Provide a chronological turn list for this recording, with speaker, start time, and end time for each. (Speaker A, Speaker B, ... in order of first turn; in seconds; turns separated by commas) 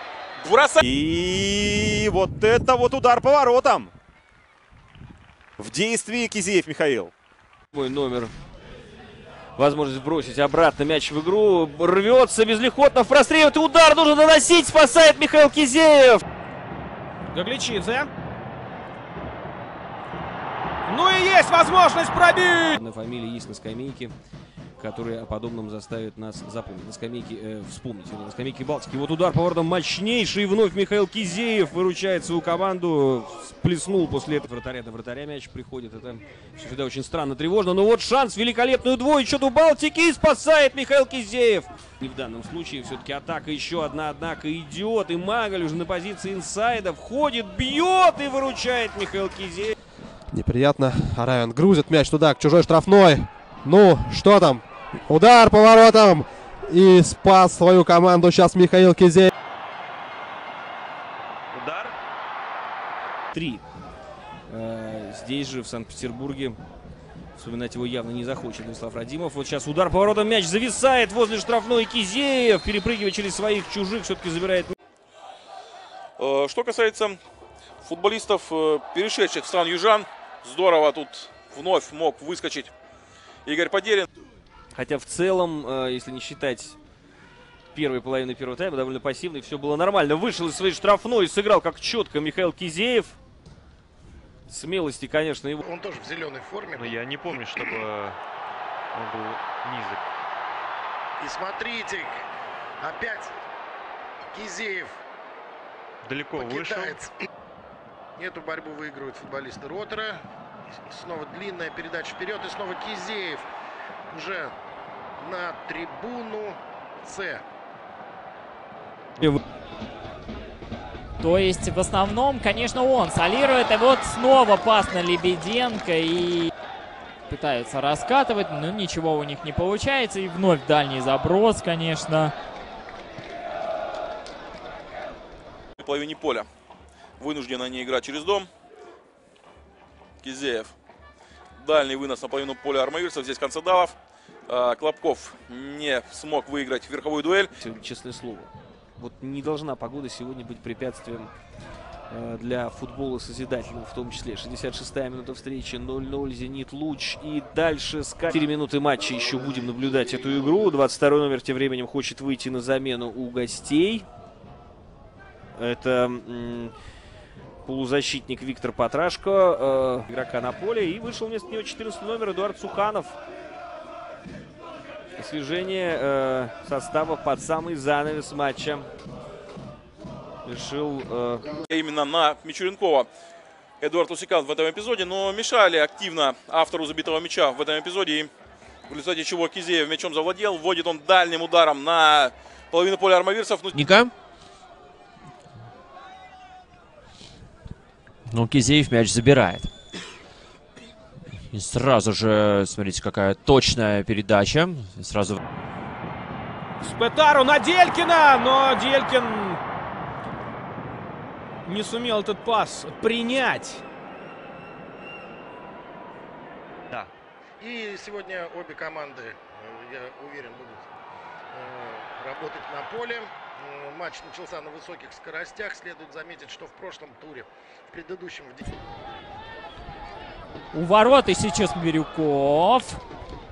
Speaker A: 0.4-0.8, Speaker B: 0.8-3.9, Speaker B: 5.6-7.1, Speaker C: 7.7-8.3, Speaker C: 9.6-16.2, Speaker D: 17.3-18.1, Speaker D: 20.9-22.8, Speaker C: 22.7-24.1, Speaker C: 24.8-49.7, Speaker E: 50.3-59.3, Speaker B: 61.5-61.9, Speaker C: 63.3-63.6, Speaker C: 64.5-66.6, Speaker C: 67.3-74.7, Speaker A: 76.2-77.2, Speaker A: 77.8-82.7, Speaker A: 83.5-84.1, Speaker C: 84.7-86.8, Speaker C: 87.7-93.2, Speaker C: 94.5-95.6, Speaker F: 95.6-97.0, Speaker G: 96.8-98.2, Speaker G: 98.9-100.0, Speaker F: 101.2-102.2, Speaker F: 102.8-103.3, Speaker F: 104.3-105.0, Speaker G: 106.0-107.0, Speaker F: 106.4-107.1, Speaker F: 108.2-110.2, Speaker F: 110.8-113.5, Speaker F: 114.1-114.5, Speaker F: 115.2-117.4, Speaker H: 121.2-126.5, Speaker H: 127.3-132.3, Speaker A: 135.8-136.5, Speaker A: 137.2-138.5, Speaker A: 140.2-140.7, Speaker A: 141.6-143.9, Speaker A: 144.5-147.5, Speaker C: 147.6-151.3, Speaker C: 152.1-164.1, Speaker C: 165.5-166.7, Speaker C: 167.6-173.2, Speaker C: 175.2-178.9, Speaker C: 180.4-181.5, Speaker A: 181.7-183.1, Speaker A: 183.8-188.3, Speaker A: 188.9-193.8, Speaker I: 193.7-194.1, Speaker I: 198.3-199.7, Speaker I: 201.5-205.4, Speaker D: 206.8-209.6, Speaker D: 211.6-213.8, Speaker F: 217.6-220.9, Speaker F: 221.5-228.7, Speaker H: 230.7-233.0